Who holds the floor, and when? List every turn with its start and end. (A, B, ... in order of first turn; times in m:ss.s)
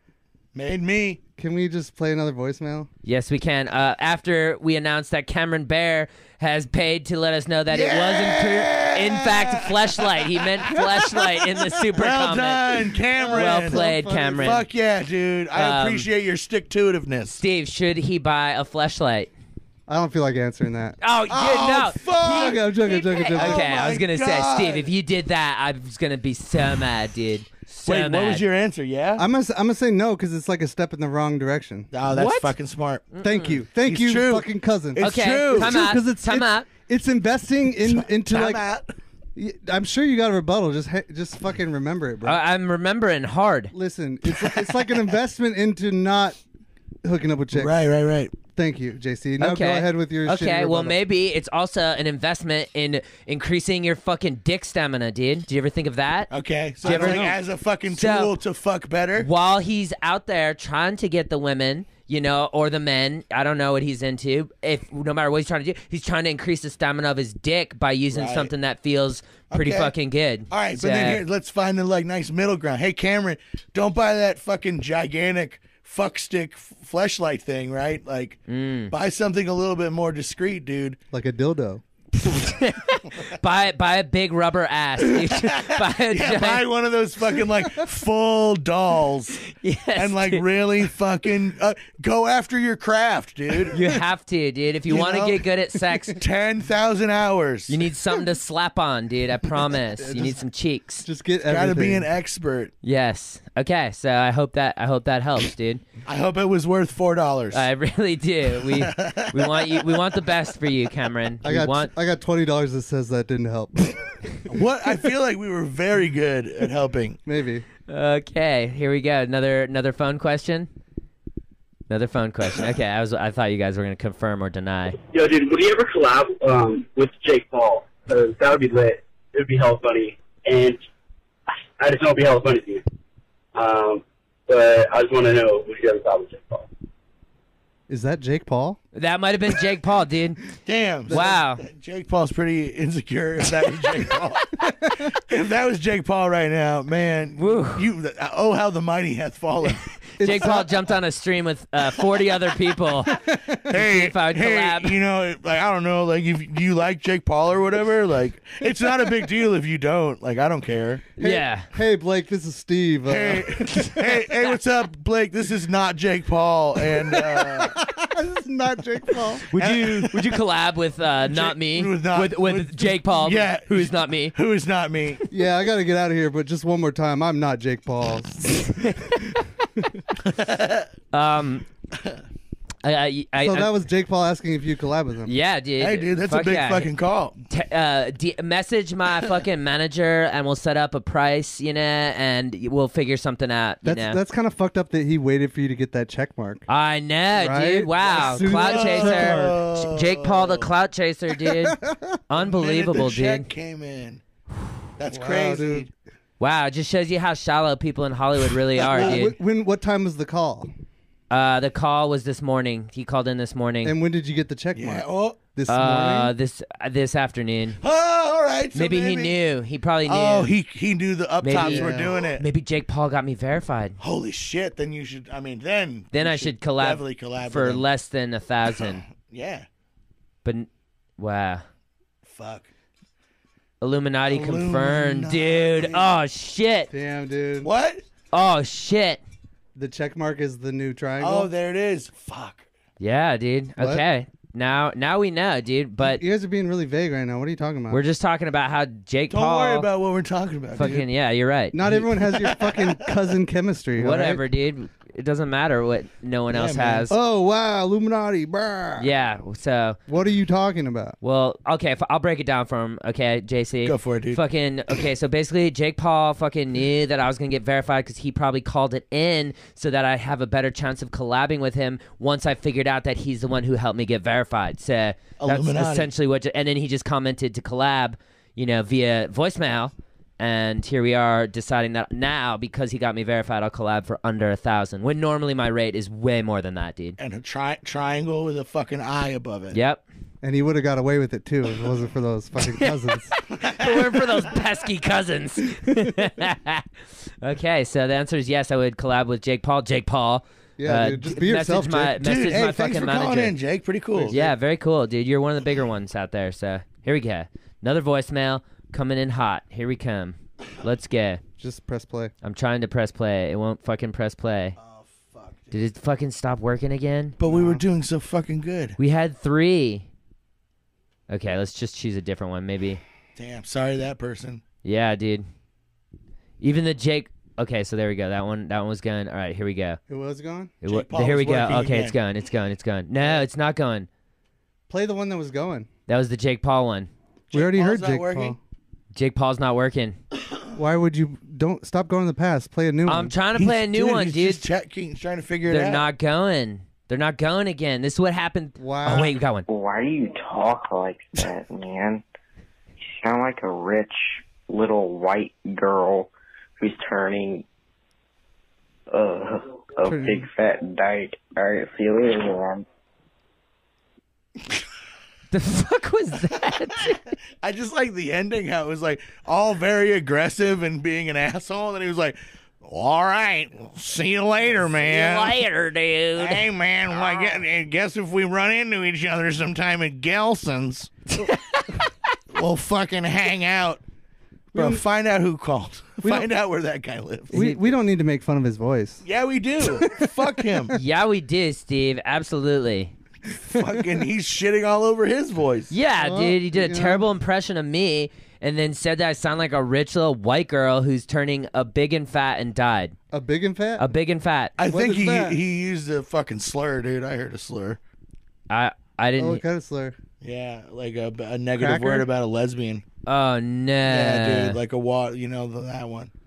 0:00.5-0:01.2 A
0:01.4-0:02.9 B
0:03.0-0:12.7 C
0:07.7-0:10.8 A
0:11.9-0:17.4 A
0:13.2-0:14.6 B
0:13.3-0:14.6 C
0:15.5-0:16.1 C
0:17.4-0:19.3 C
0:19.9-0:21.0 B
0:21.0-0:28.4 C
0:21.3-0:22.7 A
0:22.2-0:23.8 B
0:23.3-0:24.9 A
0:27.8-0:29.2 A
0:29.2-0:31.9 B
0:31.9-0:33.1 A
0:32.1-0:32.5 C
0:33.1-0:33.6 C
0:33.2-0:38.6 B
0:33.8-0:36.0 A
0:35.0-0:36.7 C
0:37.8-0:38.9 A
0:39.4-0:42.4 B
0:42.2-0:43.7 C
0:43.7-0:46.4 B
0:44.4-0:44.8 A
0:47.0-0:47.7 B
0:47.5-0:48.3 A
0:48.6-0:51.0 B
0:49.4-0:56.3 C
0:56.3-0:59.3 A
0:56.8-0:57.3 C
0:56.8-0:57.4 B
0:57.9-0:58.3 C
0:59.2-1:11.2 C
1:08.1-1:08.5 A
1:09.5-1:09.9 A
1:10.5-1:21.0 A
1:18.5-1:18.9 C
1:21.1-1:21.8 B
1:22.2-1:26.6 C
1:25.1-1:33.8 A
1:29.5-1:30.4 C
1:33.7-1:36.2 C
1:34.9-1:35.4 A
1:36.2-1:37.8 A
1:37.7-1:41.0 C
1:40.0-1:40.4 B
1:41.0-1:42.1 B
1:41.5-1:42.7 A
1:42.8-1:45.8 C
1:46.0-1:47.6 A
1:47.5-1:51.9 C
1:48.6-1:49.8 A
1:51.4-1:54.1 B
1:54.5-1:57.2 A
1:57.2-1:57.6 B
1:57.9-2:00.7 C
2:01.9-2:05.0 C
2:05.0-2:10.8 D
2:11.8-2:12.8 D
2:13.5-2:16.7 D
2:17.9-2:18.8 B
2:18.9-2:20.4 C
2:20.6-2:29.9 A
2:21.1-2:21.4 B
2:21.1-2:21.6 C
2:27.4-2:27.8 C
2:30.2-2:30.8 B
2:30.2-2:33.2 C
2:33.1-2:33.6 B
2:33.6-2:41.0 A
2:33.7-2:35.0 C
2:41.2-2:44.2 B
2:41.2-2:41.7 C
2:43.1-2:47.8 A
2:47.1-2:49.4 B
2:49.5-2:54.3 C
2:49.5-2:50.4 A
2:51.3-2:55.2 A
2:55.3-2:59.2 B
2:58.8-2:59.1 C
3:00.2-3:00.9 A
3:01.1-3:01.6 C
3:02.8-3:03.7 C
3:03.4-3:05.3 B
3:05.2-3:06.9 C
3:05.8-3:07.4 A
3:07.5-3:14.2 C
3:13.8-3:16.6 B
3:16.7-3:23.5 C
3:17.3-3:19.6 B
3:18.4-3:20.7 A
3:21.4-3:22.2 B
3:22.4-3:24.2 A
3:25.0-3:25.9 A
3:25.1-3:25.9 B
3:26.4-3:29.3 C
3:28.9-3:30.7 B
3:31.3-3:33.9 C
3:33.8-3:36.3 B
3:34.7-3:35.4 A
3:35.7-3:37.8 C
3:37.8-3:39.3 A
3:38.7-3:40.5 C
3:40.1-3:42.4 A
3:41.4-3:44.0 C
3:41.5-3:42.2 B
3:44.0-3:47.8 A
3:46.1-3:49.0 C
3:48.8-3:49.7 A
3:50.4-3:51.6 C
3:52.2-3:52.7 A
3:53.8-3:56.9 C
3:54.3-3:56.1 A
3:56.9-3:57.7 B
3:57.6-3:58.0 A
3:58.3-3:59.2 C
3:59.7-4:01.5 B
4:01.2-4:02.6 A
4:03.0-4:06.2 C
4:03.8-4:04.0 B
4:06.0-4:08.0 B
4:07.9-4:09.9 C
4:09.3-4:11.0 A
4:10.8-4:11.8 C
4:10.8-4:11.0 B
4:11.7-4:14.4 B
4:11.8-4:13.0 A
4:14.0-4:17.1 C
4:16.5-4:17.1 A
4:17.1-4:19.1 B
4:19.0-4:20.0 C
4:20.1-4:21.2 B
4:21.2-4:47.2 C
4:23.8-4:24.4 A
4:35.4-4:36.1 A
4:47.2-4:49.8 A
4:49.7-4:50.0 C
4:50.4-4:53.3 B
4:52.7-4:56.9 C
4:53.5-4:54.2 A
4:57.4-5:03.5 C
5:00.8-5:02.2 B
5:02.2-5:04.5 A
5:04.3-5:11.4 C
5:11.6-5:12.3 B
5:12.4-5:14.7 C
5:14.8-5:15.7 A
5:15.7-5:17.4 C
5:17.4-5:19.0 A
5:17.4-5:17.8 B
5:19.0-5:20.1 C
5:21.3-5:23.0 C
5:23.4-5:24.6 A
5:24.8-5:25.4 C
5:26.6-5:30.0 C
5:30.1-5:30.7 B
5:30.8-5:34.1 C
5:30.8-5:32.2 A
5:34.9-5:35.9 B
5:36.1-5:37.1 C
5:37.5-5:38.6 B
5:37.5-5:38.6 A
5:39.1-5:40.2 C
5:40.7-5:43.3 B
5:43.1-5:44.6 C
5:43.6-5:46.0 A
5:45.7-5:49.6 C
5:48.8-5:49.3 B
5:49.7-5:52.2 E
5:53.2-5:57.6 E
5:59.1-6:02.8 E
6:00.0-6:00.5 B
6:05.5-6:07.2 C
6:07.6-6:15.6 A
6:15.0-6:17.5 C
6:16.4-6:21.1 A
6:21.4-6:22.0 C
6:22.5-6:24.0 A
6:24.7-6:25.0 B
6:24.7-6:27.5 A
6:26.2-6:26.5 B
6:27.5-6:29.2 B
6:27.5-6:27.8 C
6:29.2-6:30.9 A
6:29.8-6:30.9 B
6:30.9-6:33.1 C
6:33.7-6:35.9 A
6:35.9-6:43.1 C
6:36.2-6:37.2 B
6:43.3-6:44.1 B
6:44.0-6:44.7 C
6:44.8-6:48.0 A
6:44.8-6:45.6 B
6:48.7-6:49.6 C
6:49.4-6:50.2 B
6:50.4-6:53.0 A
6:51.8-6:52.3 B
6:53.2-6:54.8 C
6:54.1-6:56.3 A